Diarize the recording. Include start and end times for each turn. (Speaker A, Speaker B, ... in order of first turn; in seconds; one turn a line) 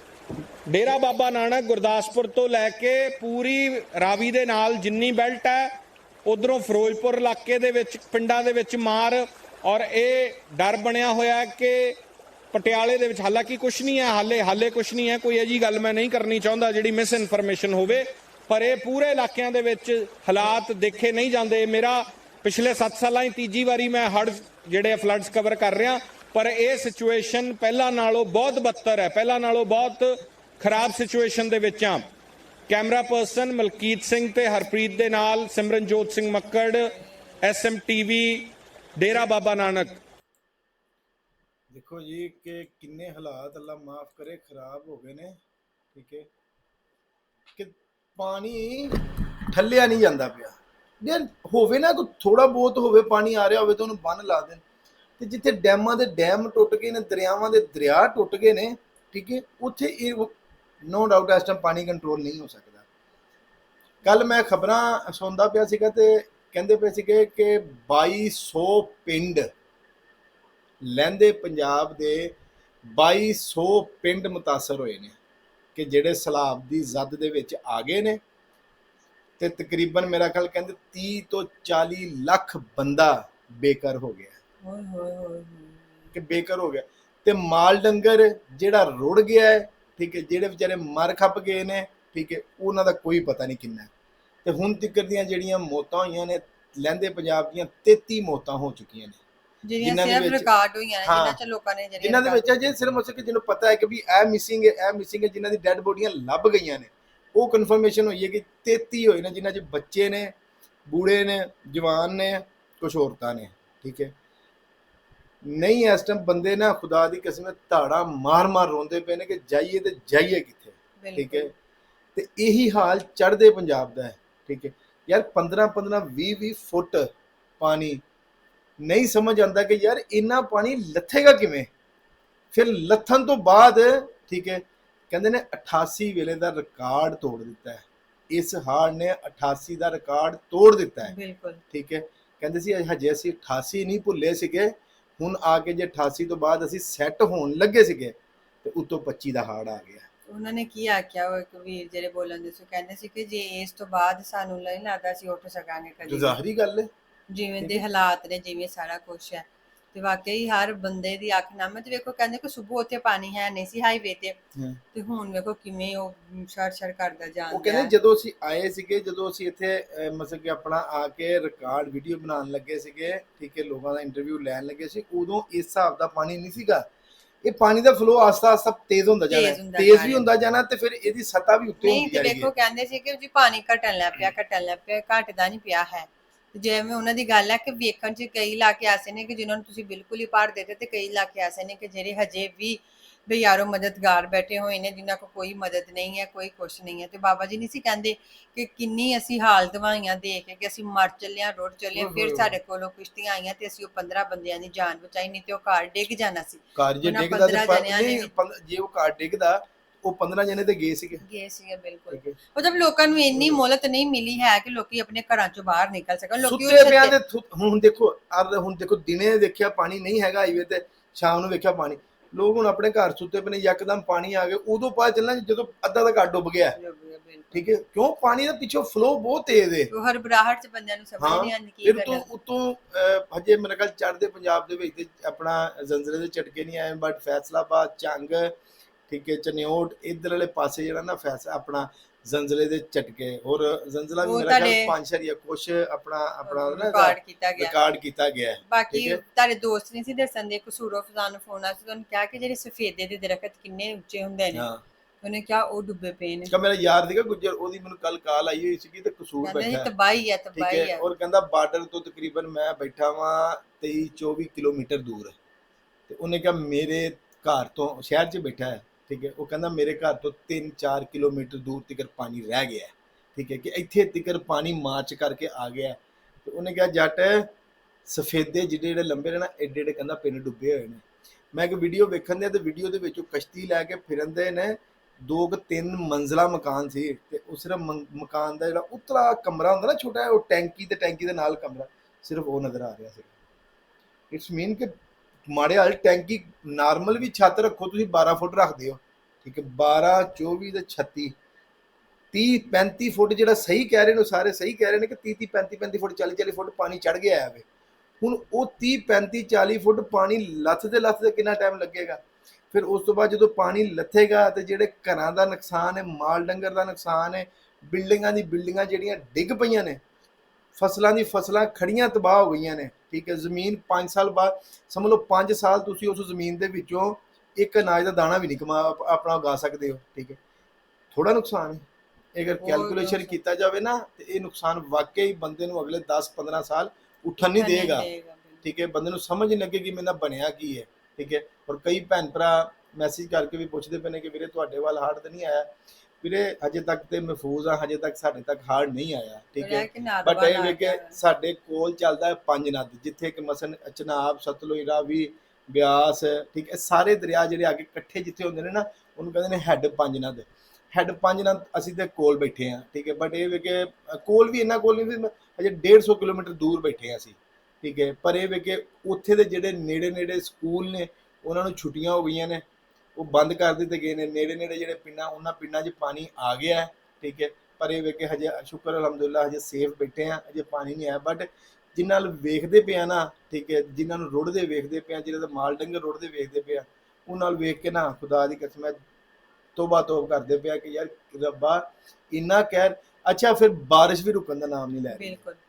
Speaker A: 0.7-12.0
Speaker A: 12.5-32.0
Speaker A: 32.7-36.9
Speaker A: 37.4-40.0
Speaker B: 41.7-45.4
Speaker B: 45.9-46.3
Speaker B: 47.6-49.0
Speaker B: 49.5-54.6
Speaker B: 55.2-60.3
Speaker B: 60.9-62.8
Speaker B: 64.0-69.5
Speaker B: 70.8-72.3
Speaker B: 72.9-75.2
Speaker B: 75.8-78.2
Speaker B: 79.4-84.4
Speaker C: 84.6-86.0
Speaker B: 86.1-93.9
Speaker B: 94.5-99.2
Speaker C: 99.7-102.5
Speaker B: 99.8-100.5
Speaker B: 101.0-101.4
Speaker B: 102.0-110.3
Speaker B: 110.9-114.1
Speaker B: 115.5-121.5
Speaker C: 121.0-121.5
Speaker B: 122.2-128.0
Speaker B: 128.8-131.7
Speaker B: 132.5-141.2
Speaker C: 141.1-141.6
Speaker B: 141.7-150.1
Speaker C: 150.3-156.4
Speaker B: 156.1-156.9
Speaker C: 157.3-164.4
Speaker B: 157.6-157.8
Speaker C: 164.9-167.9
Speaker B: 167.5-176.9
Speaker B: 177.4-182.5
Speaker C: 179.3-180.2
Speaker C: 181.8-208.3
Speaker B: 201.9-202.6
Speaker B: 206.8-211.2
Speaker C: 211.2-217.2
Speaker B: 212.1-212.4
Speaker B: 213.3-213.6
Speaker B: 216.4-226.8
Speaker C: 226.8-227.6
Speaker B: 227.5-229.9
Speaker C: 229.9-232.2
Speaker B: 231.2-238.6
Speaker B: 239.1-249.2
Speaker C: 244.2-244.9
Speaker C: 246.5-247.8
Speaker C: 248.7-254.7
Speaker B: 254.5-254.8
Speaker C: 255.2-256.6
Speaker B: 256.5-259.9
Speaker C: 259.4-261.0
Speaker B: 260.6-265.4
Speaker B: 266.1-277.5
Speaker B: 278.1-293.3
Speaker B: 294.3-294.9
Speaker B: 295.5-301.3
Speaker B: 302.3-307.6
Speaker B: 308.2-312.2
Speaker B: 312.7-320.0
Speaker B: 320.8-330.4
Speaker B: 331.1-331.8
Speaker B: 332.4-338.1
Speaker C: 332.6-333.4
Speaker C: 337.6-338.6
Speaker B: 338.6-372.6
Speaker C: 349.6-351.1
Speaker B: 373.2-389.0
Speaker B: 389.8-395.4
Speaker C: 395.1-395.6